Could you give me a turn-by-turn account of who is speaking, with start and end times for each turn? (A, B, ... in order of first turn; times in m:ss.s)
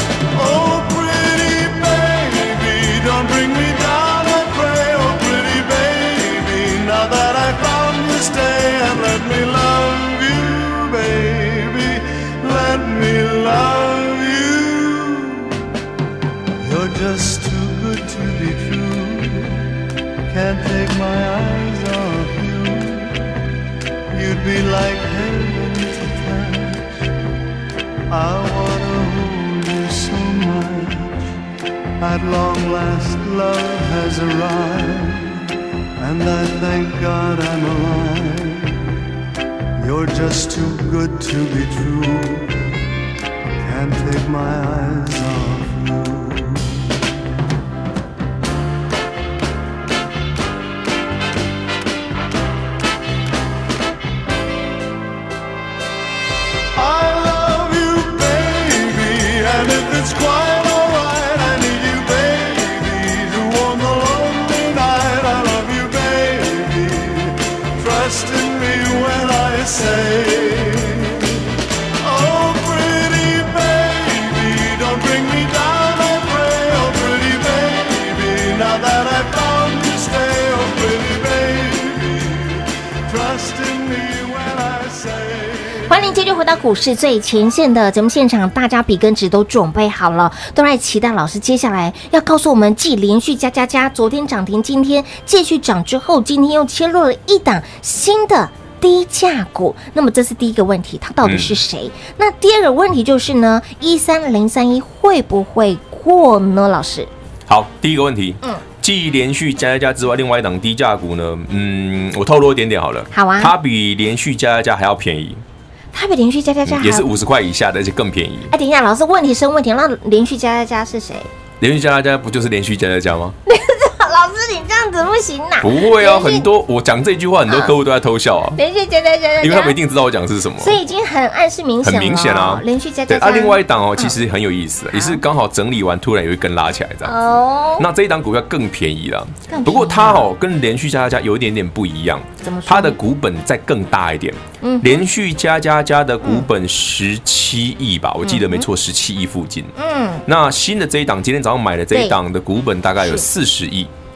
0:00.3-0:15.6 A
0:16.6-0:19.7 A
0:20.3-0:23.4 A
0:24.1-0:27.1 A
0:28.1-0:31.3 A
0:32.0-0:38.9 A
0:39.8-0:42.8 A
0:43.6-0:47.0 A
0:56.8-1:26.0 A
1:25.9-1:47.1 B
1:41.2-1:41.6 C
1:47.5-1:55.4 C
1:53.1-1:53.6 B
1:55.9-1:57.1 B
1:56.7-1:58.5 C
1:58.5-2:01.3 B
2:01.6-2:03.4 C
2:03.5-2:06.5 B
2:05.6-2:08.6 C
2:07.5-2:07.7 B
2:08.6-2:09.8 B
2:09.4-2:10.8 C
2:10.6-2:14.2 B
2:11.8-2:17.2 C
2:14.9-2:15.2 B
2:17.0-2:17.9 B
2:17.8-2:29.7 C
2:19.5-2:20.3 B
2:22.4-2:23.0 B
2:24.6-2:25.0 B
2:26.2-2:26.5 B
2:28.2-2:28.7 B
2:29.8-2:30.2 B
2:30.3-2:33.9 C
2:31.9-2:32.2 B
2:33.0-2:33.3 B